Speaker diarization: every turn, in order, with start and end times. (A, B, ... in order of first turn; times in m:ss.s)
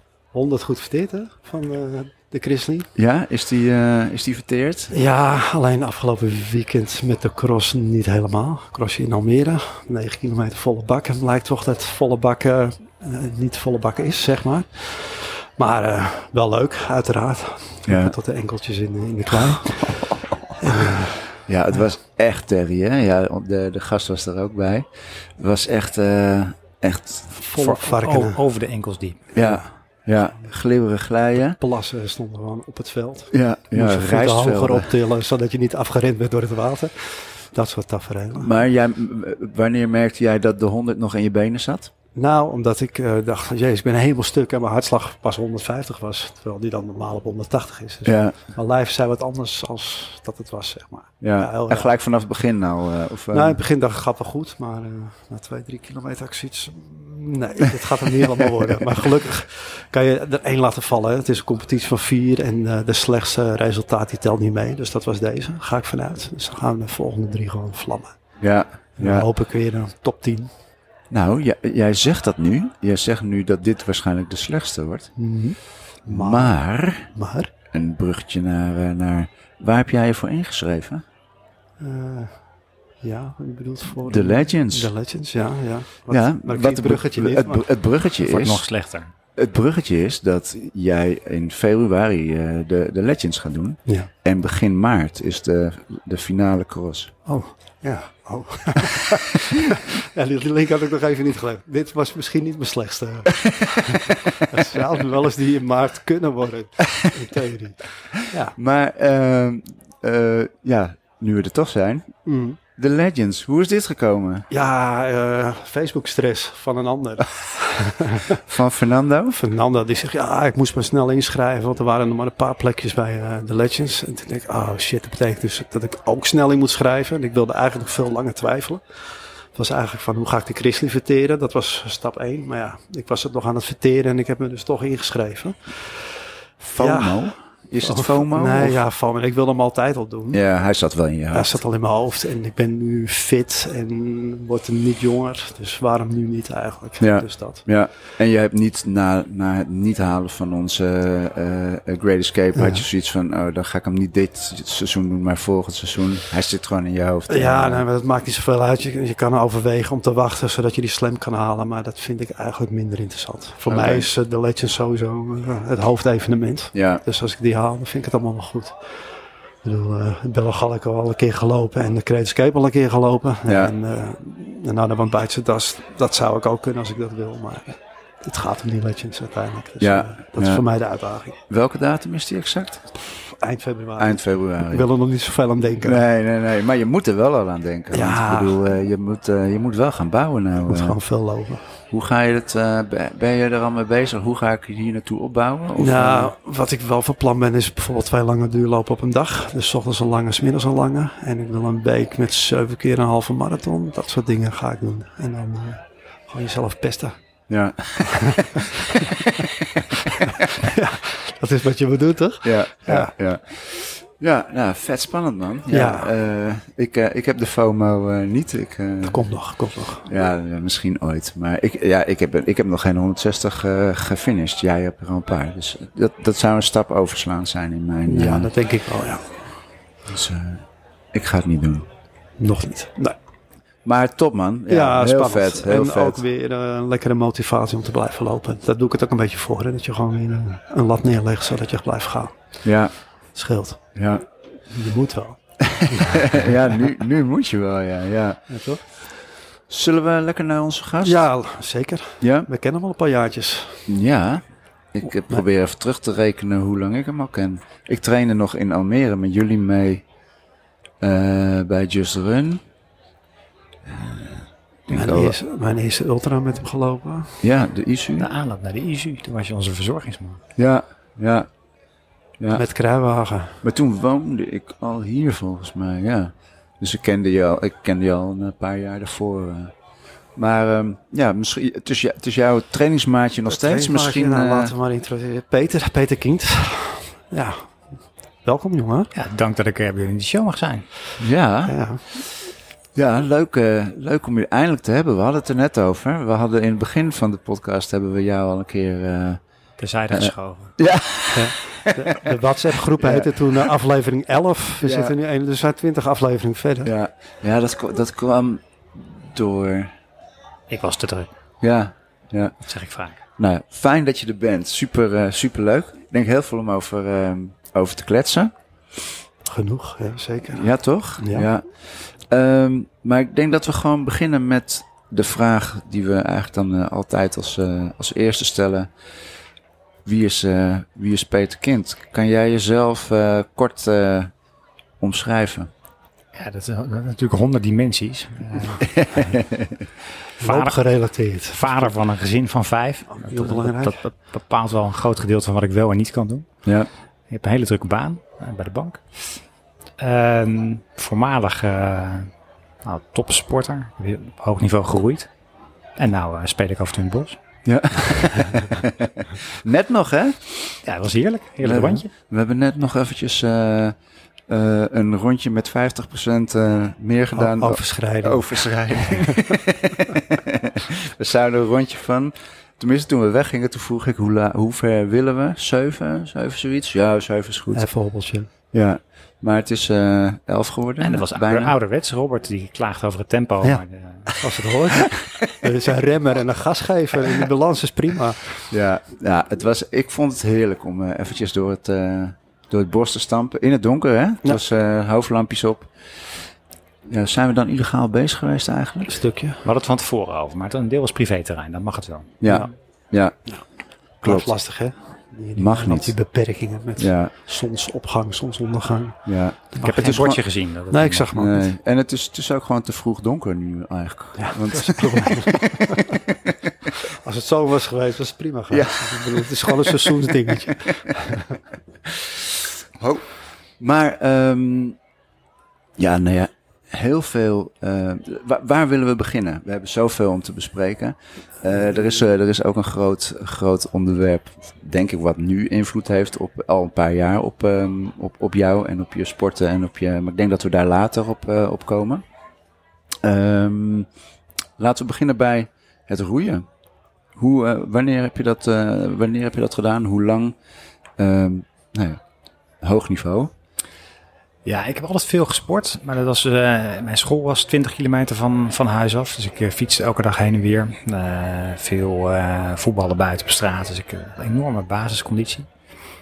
0:00.3-0:02.9 A
0:03.0-0:04.9 B
0:04.9-0:21.3 A
0:17.9-0:18.1 B
0:19.3-0:20.1 B
0:20.7-0:27.3 B
0:27.3-0:28.4 A
0:27.6-0:29.2 C
0:29.3-0:31.6 B
0:29.4-0:29.7 A
0:31.5-0:38.5 A
0:33.3-0:34.9 B
0:38.4-0:41.9 B
0:42.1-0:51.9 A
0:48.0-0:48.4 B
0:51.2-0:53.6 B
0:53.3-1:08.1 A
1:08.4-1:09.3 B
1:09.0-1:10.5 A
1:11.1-1:15.1 B
1:15.2-1:17.5 A
1:16.1-1:17.1 B
1:17.7-1:21.0 B
1:21.8-1:22.4 A
1:23.0-1:27.7 A
1:24.0-1:24.9 B
1:26.1-1:28.6 B
1:28.2-1:29.1 C
1:29.3-1:37.1 B
1:37.2-1:48.5 A
1:43.3-1:44.6 B
1:48.4-1:52.1 B
1:52.2-1:52.6 A
1:52.8-1:54.5 B
1:54.5-1:58.4 A
1:58.4-1:59.4 B
1:59.4-2:08.8 A
2:09.5-2:16.1 A
2:16.6-2:18.8 B
2:16.8-2:17.3 A
2:17.8-2:20.4 A
2:20.3-2:21.6 B
2:21.3-2:27.6 A
2:27.0-2:37.8 B
2:32.6-2:32.8 A
2:37.3-2:48.8 A
2:43.6-2:44.1 B
2:46.7-2:47.0 B
2:49.6-3:01.4 A
2:53.5-2:53.7 B
2:59.8-3:00.6 B
3:01.5-3:02.8 B
3:03.1-3:06.0 A
3:04.0-3:04.9 B
3:05.8-3:11.0 B
3:07.9-3:08.6 A
3:10.6-3:11.6 A
3:11.9-3:16.3 B
3:15.8-3:27.2 A
3:27.5-3:30.3 B
3:28.1-3:29.2 A
3:30.2-3:33.1 A
3:32.4-3:39.3 B
3:35.7-3:36.1 A
3:39.0-3:40.1 A
3:40.0-3:48.5 B
3:48.1-3:49.4 A
3:50.1-3:51.9 B
3:52.4-3:53.2 A
3:53.8-3:56.2 B
3:54.7-4:02.3 A
4:02.6-4:02.9 B
4:03.3-4:03.8 A
4:03.9-4:04.2 B
4:04.7-4:05.4 A
4:05.6-4:08.4 B
4:05.9-4:06.4 A
4:08.5-4:08.8 A
4:09.7-4:11.3 B
4:11.0-4:13.9 A
4:12.2-4:12.5 B
4:13.9-4:20.0 B
4:21.0-4:22.6 B
4:23.9-4:25.4 B
4:24.9-4:27.4 A
4:27.4-4:28.3 B
4:28.2-4:30.4 C
4:30.6-4:31.5 B
4:32.5-4:33.6 A
4:33.6-4:39.7 B
4:40.4-4:44.7 B
4:43.5-4:47.9 A
4:48.4-4:49.1 A
4:49.1-4:50.9 C
4:51.2-4:51.8 B
4:51.6-4:52.0 A
4:52.9-4:59.4 B
4:59.8-5:00.8 C
5:00.1-5:02.4 B
5:01.3-5:06.9 A
5:02.9-5:03.7 B
5:04.8-5:05.1 B
5:06.8-5:09.9 B
5:10.7-5:11.3 C
5:11.6-5:12.5 B
5:12.6-5:13.2 C
5:13.4-5:18.5 B
5:19.4-5:21.5 A
5:20.5-5:28.9 B
5:30.0-5:34.3 B
5:35.0-5:35.7 B
5:36.3-5:38.9 C
5:38.8-5:39.8 B
5:40.4-5:41.9 A
5:40.4-5:40.9 C
5:41.5-5:46.5 C
5:43.1-5:44.0 A
5:47.3-5:49.0 C
5:50.0-5:52.3 C
5:52.8-5:55.3 C
5:56.0-5:57.4 C
5:57.6-6:00.8 B
6:00.8-6:02.1 C
6:01.6-6:04.0 B
6:04.5-6:17.9 B
6:07.3-6:09.4 A
6:17.7-6:18.5 A
6:18.7-6:21.7 B
6:21.0-6:24.3 C
6:24.4-6:28.7 A
6:28.7-6:35.9 B
6:37.1-6:39.2 B
6:39.1-6:39.6 A
6:39.6-6:42.7 C
6:42.4-6:43.3 B
6:44.2-6:44.5 B
6:44.2-6:50.4 A
6:45.6-6:46.1 B
6:47.0-6:47.3 B
6:49.2-6:50.4 B
6:49.8-6:51.3 C
6:50.9-6:51.7 A
6:51.3-6:56.9 B
6:54.4-6:56.2 A
6:57.1-7:01.6 A
6:58.7-7:01.1 B
7:02.1-7:03.3 B
7:03.8-7:05.0 B
7:06.0-7:22.2 B
7:23.2-7:24.1 B
7:24.8-7:26.6 B
7:27.4-7:30.5 B
7:31.2-7:32.2 B
7:32.8-7:33.5 B
7:34.6-7:45.7 C